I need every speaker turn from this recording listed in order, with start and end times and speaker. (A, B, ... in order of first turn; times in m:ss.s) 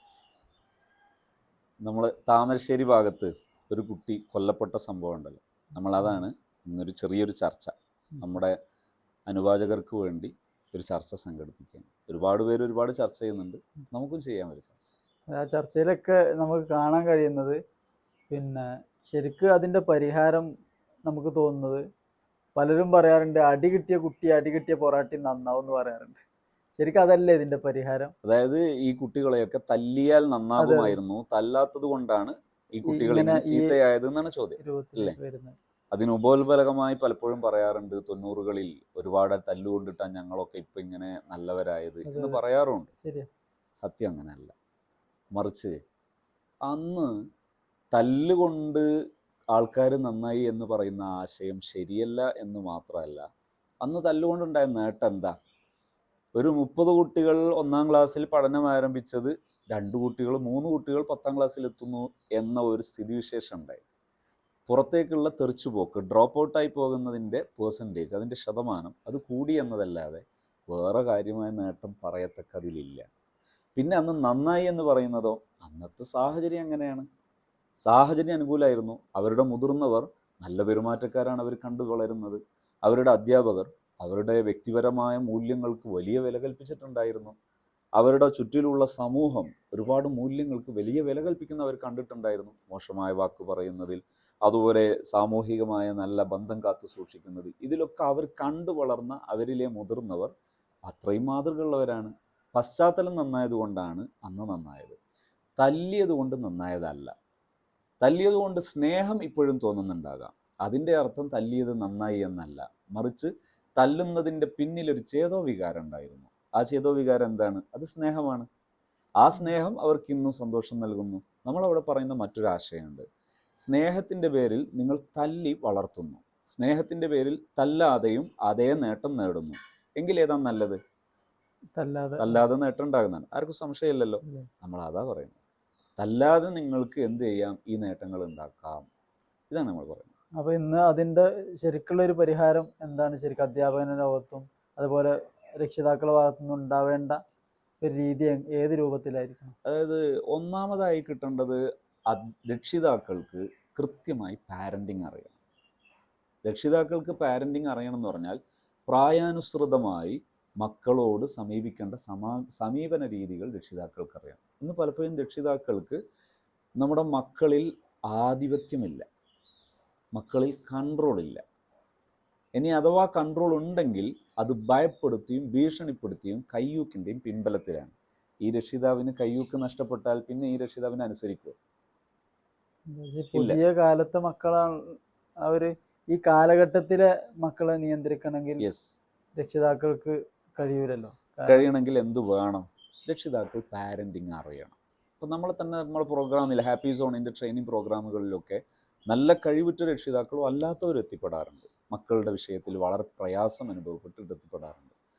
0:01.8-0:08.6 A
0:09.3-0:14.9 A
0:15.3-0:17.6 B
0:18.3-0:20.5 B
0:21.0-0:21.8 B
0:22.6-0:26.2 B
0:26.8-0:28.1 B
0:28.2-0:35.2 A
0:30.6-0:31.0 B
0:32.8-0:33.8 B
0:34.6-0:35.6 B
0:35.9-0:42.9 A
0:42.0-0:42.4 B
0:43.8-0:44.5 A
0:45.3-0:45.8 A
0:46.7-0:47.2 A
0:47.9-0:48.8 A
0:49.5-0:53.2 A
0:53.8-0:55.3 A
0:56.3-1:03.8 A
1:04.7-1:13.1 A
1:13.8-1:17.1 A
1:17.8-1:27.3 A
1:28.0-1:40.3 A
1:40.8-1:45.0 A
1:45.6-1:47.1 A
1:48.0-1:58.5 A
1:59.2-2:03.0 A
2:03.6-2:10.8 A
2:11.8-2:12.5 B
2:12.2-2:15.4 A
2:16.0-2:18.8 A
2:19.5-2:20.1 A
2:20.4-2:27.2 B
2:27.8-2:29.5 B
2:29.6-2:35.4 A
2:36.4-2:46.0 A
2:46.8-2:49.0 A
2:50.2-2:51.4 A
2:52.6-3:01.6 A
3:02.9-3:08.7 B
3:03.3-3:03.6 A
3:08.6-3:09.0 A
3:09.4-3:11.6 B
3:11.4-3:24.9 A